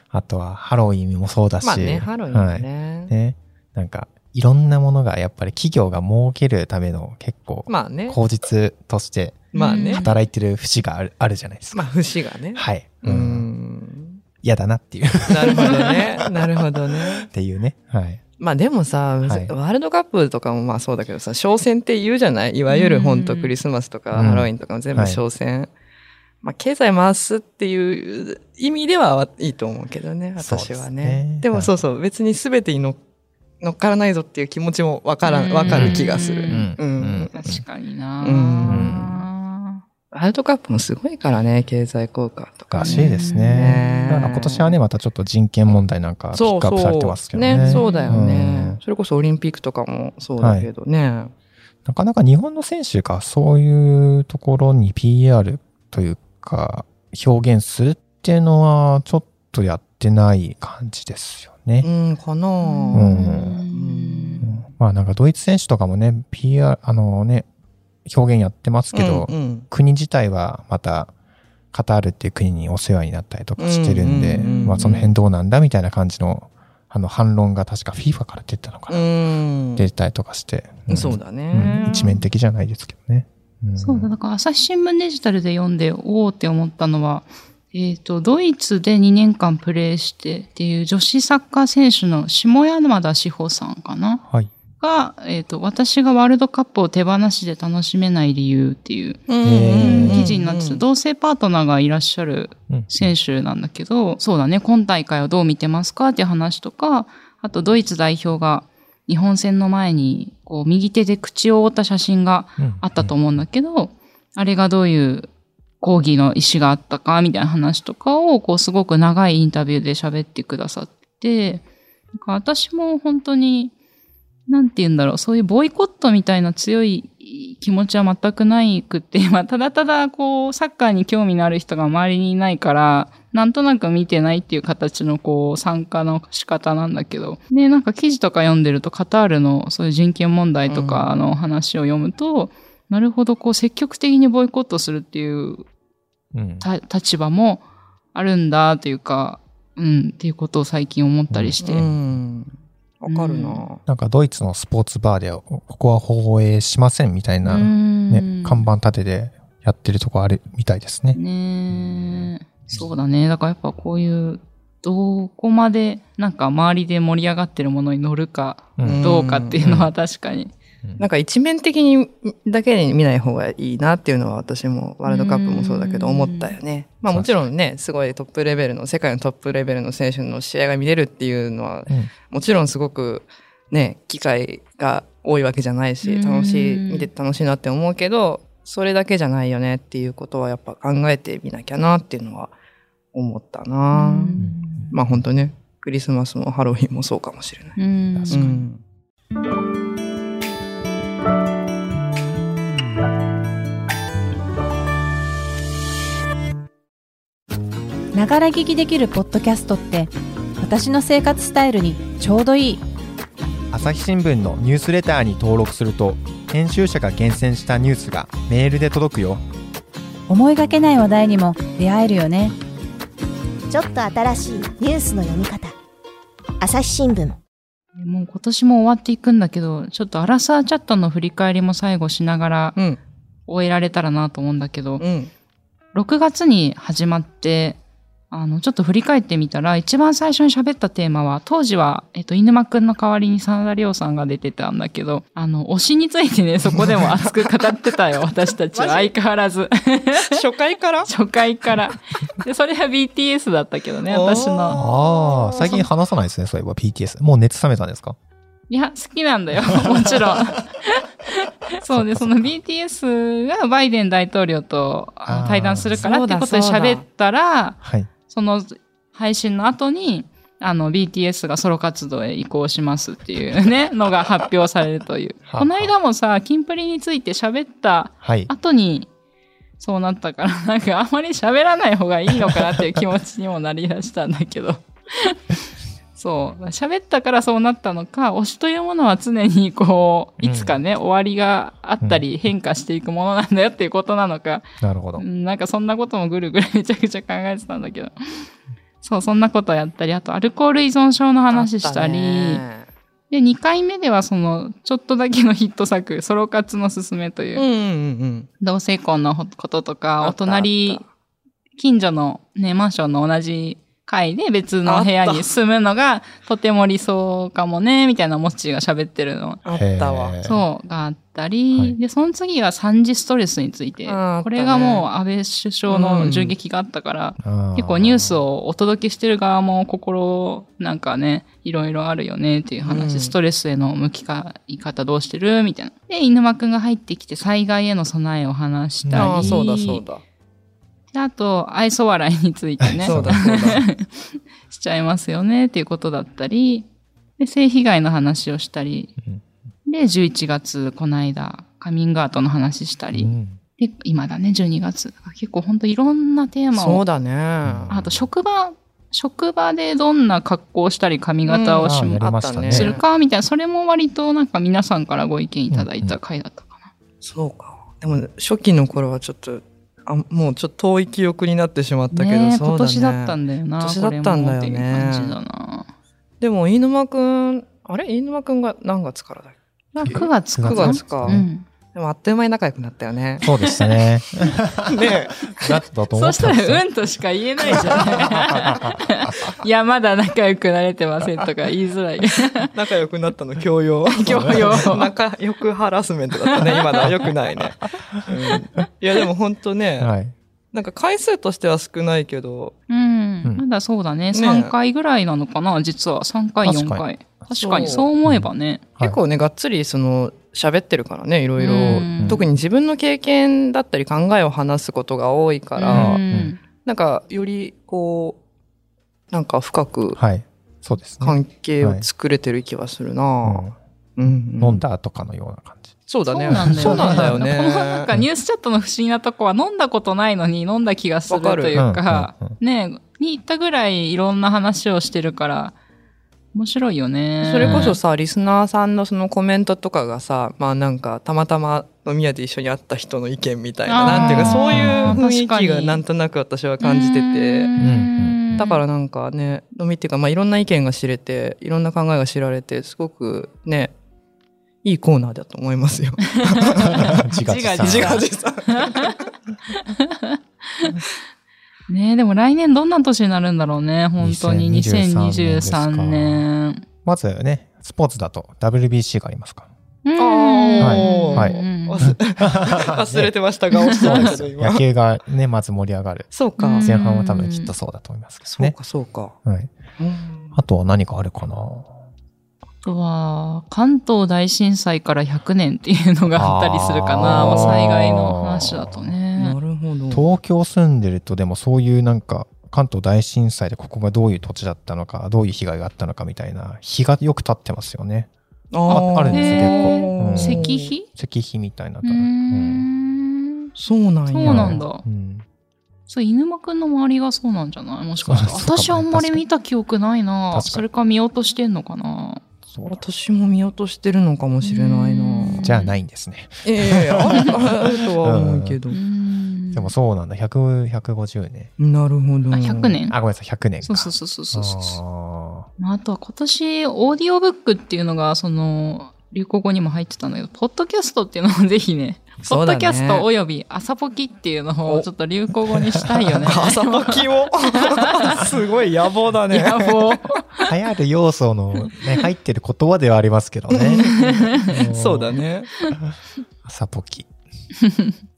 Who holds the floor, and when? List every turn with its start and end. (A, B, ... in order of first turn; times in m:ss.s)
0:00.1-0:11.9 A
0:01.6-0:03.1 B
0:07.7-0:08.2 B
0:09.5-0:10.1 B
0:09.5-0:10.1 C
0:11.7-0:14.2 B
0:12.5-0:13.5 A
0:14.4-0:18.2 A
0:15.3-0:17.3 B
0:18.4-0:25.7 B
0:19.2-0:19.5 A
0:22.7-0:23.5 C
0:24.1-0:25.2 A
0:26.4-0:33.0 B
0:30.4-0:31.7 A
0:33.6-0:37.4 B
0:35.2-0:36.8 C
0:35.6-0:37.6 A
0:37.3-0:39.8 C
0:38.2-0:39.2 B
0:38.7-0:39.0 A
0:40.1-0:44.8 B
0:42.7-0:48.8 A
0:42.8-0:44.3 C
0:46.3-0:51.3 B
0:47.5-0:48.4 C
0:50.4-0:50.7 A
0:51.8-1:01.9 A
1:01.8-1:03.2 B
1:02.6-1:04.5 C
1:02.9-1:03.6 A
1:03.7-1:04.5 B
1:04.4-1:07.5 A
1:08.0-1:11.1 A
1:08.9-1:09.7 B
1:11.7-1:19.1 A
1:13.6-1:15.1 B
1:14.3-1:15.0 C
1:18.9-1:19.9 B
1:19.8-1:24.1 A
1:20.9-1:22.1 B
1:21.6-1:22.2 C
1:23.8-1:34.2 C
1:34.2-1:34.5 A
1:34.8-1:39.2 C
1:39.3-1:40.8 B
1:39.4-1:40.2 A
1:39.8-1:55.3 C
1:42.7-1:43.1 A
1:52.6-1:53.2 A
1:55.8-2:01.6 C
2:02.1-2:03.7 C
2:04.5-2:25.6 C
2:20.7-2:21.1 B
2:26.3-2:26.6 A
2:26.6-2:27.6 C
2:28.1-2:31.8 C
2:31.3-2:31.9 A
2:31.6-2:33.8 B
2:33.1-2:33.6 C
2:33.8-2:41.2 A
2:37.4-2:38.7 C
2:41.1-2:50.5 C
2:41.7-2:42.3 A
2:48.8-2:49.0 A
2:48.8-2:49.6 B
2:49.6-2:49.9 A
2:51.0-3:12.5 B
2:55.1-2:56.5 C
2:57.1-2:57.5 A
3:06.0-3:07.1 C
3:13.1-3:14.4 B
3:13.9-3:14.9 C
3:14.4-3:14.9 A
3:14.9-3:17.8 B
3:17.8-3:18.6 C
3:18.1-3:18.4 A
3:18.3-3:18.8 B
3:28.1-3:32.8 D
3:33.7-3:39.4 A
3:40.3-3:42.5 D
3:43.7-3:45.7 E
3:46.6-3:47.4 E
3:48.0-3:52.8 C
3:53.5-3:55.0 C
3:55.0-3:55.3 B
3:55.9-3:57.8 C
3:58.3-4:10.4 C
4:06.8-4:07.6 B
4:08.8-4:09.1 B
4:10.2-4:11.1 B
4:11.0-4:15.8 C
4:14.1-4:14.8 B
4:14.7-4:18.2 A
4:18.7-4:39.1 C
4:19.7-4:20.5 A
4:21.8-4:22.5 A
4:25.3-4:26.0 A
4:26.0-4:27.0 B
4:27.8-4:28.1 A
4:35.5-4:35.9 A
4:38.2-4:38.5 A
4:39.8-4:45.4 C
4:46.1-4:58.5 C
4:50.4-4:50.8 A
4:54.8-4:55.2 A
4:59.0-5:02.6 C
5:01.5-5:02.9 B
5:03.3-5:07.6 C
5:07.6-5:08.5 B
5:08.6-5:11.0 C
5:10.2-5:11.1 B
5:11.8-5:19.6 C
5:14.8-5:15.5 B
5:19.6-5:20.4 B
5:19.7-5:20.6 A
5:20.4-5:40.0 C
5:24.0-5:25.1 B
5:25.9-5:26.5 B
5:27.4-5:28.4 A
5:32.8-5:33.3 B
5:39.0-5:39.6 A
5:39.1-5:40.2 B
5:41.1-5:46.9 C
5:42.8-5:43.8 A
5:43.0-5:43.8 B
5:47.4-5:49.1 C
5:49.8-5:57.0 C
5:53.1-5:53.6 A
5:56.7-5:57.9 B
5:57.6-5:58.3 A
5:57.9-6:06.9 C
6:01.5-6:03.0 B
6:01.8-6:03.0 A
6:05.7-6:06.2 A
6:07.2-6:15.4 B
6:12.1-6:15.9 C
6:16.4-6:21.4 B
6:19.9-6:21.6 C
6:20.0-6:21.5 A
6:21.9-6:23.4 B
6:23.4-6:26.8 A
6:23.4-6:23.8 C
6:24.8-6:25.8 B
6:26.1-6:32.7 C
6:27.7-6:29.5 A
6:27.7-6:28.5 B
6:32.7-6:40.1 B
6:34.1-6:35.1 C
6:34.3-6:34.8 A
6:36.4-6:37.0 C
6:37.0-6:38.2 A
6:40.0-6:40.3 A
6:40.7-6:42.8 B
6:42.9-6:48.8 C
6:44.3-6:44.7 B
6:46.6-6:47.0 A
6:47.6-6:48.1 B
6:48.2-6:49.2 A
6:49.0-6:56.2 B
6:51.6-6:52.4 C
6:51.7-6:52.4 A
6:55.8-6:56.6 C
6:55.9-6:56.5 A
6:56.8-6:58.4 B
6:59.3-7:00.2 B
7:00.2-7:02.0 A
7:01.2-7:04.8 B
7:03.4-7:03.8 A
7:04.3-7:06.0 A
7:06.1-7:08.0 B
7:06.3-7:15.7 C
7:06.6-7:07.5 A
7:11.3-7:11.8 B
7:11.7-7:12.5 A
7:16.5-7:18.0 C
7:17.4-7:27.7 B
7:17.6-7:18.0 A
7:23.9-7:26.0 C
7:24.0-7:25.2 A
7:26.8-7:28.8 C
7:27.8-7:28.6 A
7:28.6-7:33.9 B
7:34.8-7:37.2 B
7:36.4-7:39.2 C
7:36.8-7:38.2 A
7:37.8-7:39.2 B
7:39.7-7:41.0 C
7:41.9-7:46.8 C
7:44.2-7:46.5 A
7:47.0-7:49.7 A
7:50.0-7:52.1 C
7:50.2-7:54.8 B
7:50.8-7:53.3 A
7:53.8-7:54.3 C
7:53.9-7:58.8 A
7:56.3-7:56.9 B
7:56.6-7:57.7 C
7:58.4-7:59.4 B
7:59.4-7:59.8 A
8:00.0-8:00.6 B
8:00.5-8:02.0 A
8:02.8-8:09.6 C
8:06.3-8:09.1 A
8:07.2-8:07.9 B
8:09.4-8:10.3 B
8:10.1-8:18.3 A
8:18.7-8:20.9 B
8:18.9-8:22.9 A
8:19.0-8:21.1 C
8:22.0-8:23.7 C
8:23.8-8:24.8 B
8:24.3-8:25.0 C
8:24.4-8:25.4 A
8:26.1-8:32.4 C
8:28.2-8:29.4 A
8:30.5-8:30.8 A
8:32.6-8:33.0 A
8:32.9-8:35.6 B
8:34.6-8:35.9 C
8:35.5-8:38.8 A
8:36.6-8:39.0 B
8:38.9-8:39.9 C
8:39.7-8:41.7 A
8:41.8-8:43.0 B
8:42.5-8:43.2 C
8:43.1-8:45.7 A
8:43.8-8:45.0 C
8:45.8-8:58.5 C
8:52.4-8:53.2 B
8:55.7-8:56.5 A
8:56.5-9:00.2 B
8:59.5-9:00.7 C
9:00.6-9:05.4 A
9:03.7-9:05.7 B
9:04.2-9:04.7 C
9:06.0-9:07.3 A
9:07.8-9:08.1 C